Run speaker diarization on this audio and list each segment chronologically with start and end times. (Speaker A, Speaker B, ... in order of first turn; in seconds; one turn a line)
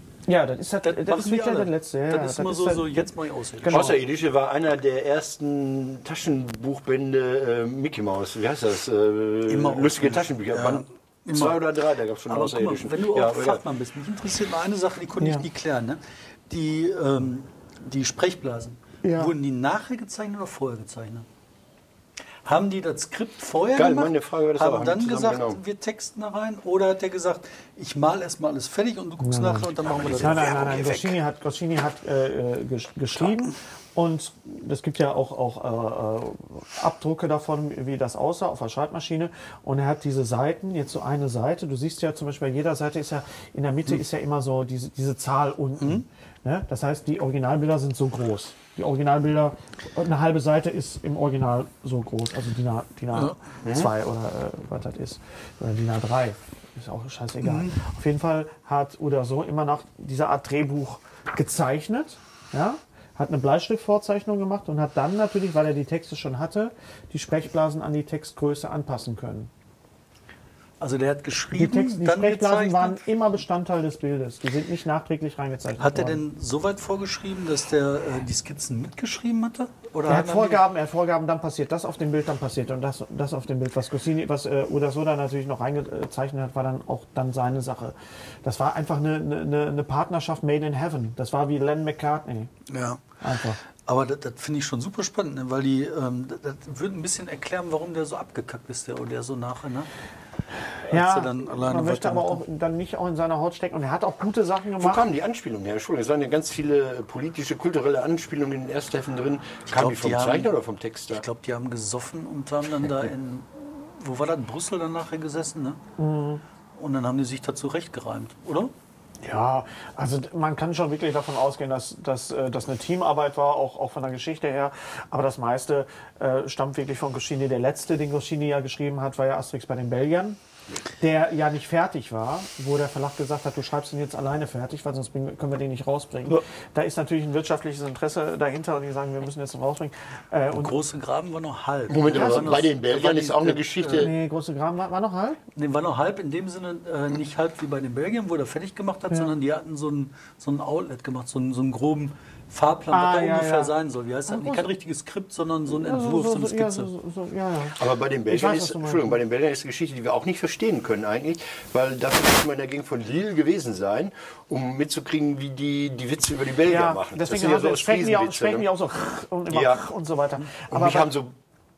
Speaker A: 0.2-3.1
Speaker B: 0.8-3.8
Speaker A: 3.6-4.0
Speaker C: 3.7-13.6
Speaker B: 9.5-11.8
Speaker B: 12.3-21.2
Speaker A: 15.2-15.4
Speaker A: 19.0-19.3
Speaker B: 22.4-30.5
Speaker C: 23.7-25.6
Speaker A: 29.2-69.5
Speaker C: 29.9-31.2
Speaker C: 53.6-53.9
Speaker B: 57.4-57.7
Speaker B: 70.8-73.0
Speaker A: 71.5-76.2
Speaker B: 75.8-80.6
Speaker A: 80.0-92.5
Speaker B: 92.7-93.0
Speaker A: 93.2-93.6
Speaker B: 93.8-99.9
Speaker B: 100.8-102.4
Speaker A: 100.9-105.0
Speaker C: 104.8-111.2
Speaker B: 109.7-110.5
Speaker B: 111.1-115.8
Speaker A: 116.0-116.4
Speaker B: 116.8-118.7
Speaker A: 119.2-130.4
Speaker A: 131.0-140.7
Speaker B: 140.5-144.1
Speaker C: 141.9-144.1
Speaker A: 142.1-142.5
Speaker A: 144.0-145.4
Speaker B: 145.6-156.9
Speaker A: 152.9-153.7
Speaker A: 154.3-154.7
Speaker A: 155.7-159.2
Speaker C: 157.7-168.7
Speaker A: 166.7-171.1
Speaker C: 169.5-169.8
Speaker C: 170.6-171.3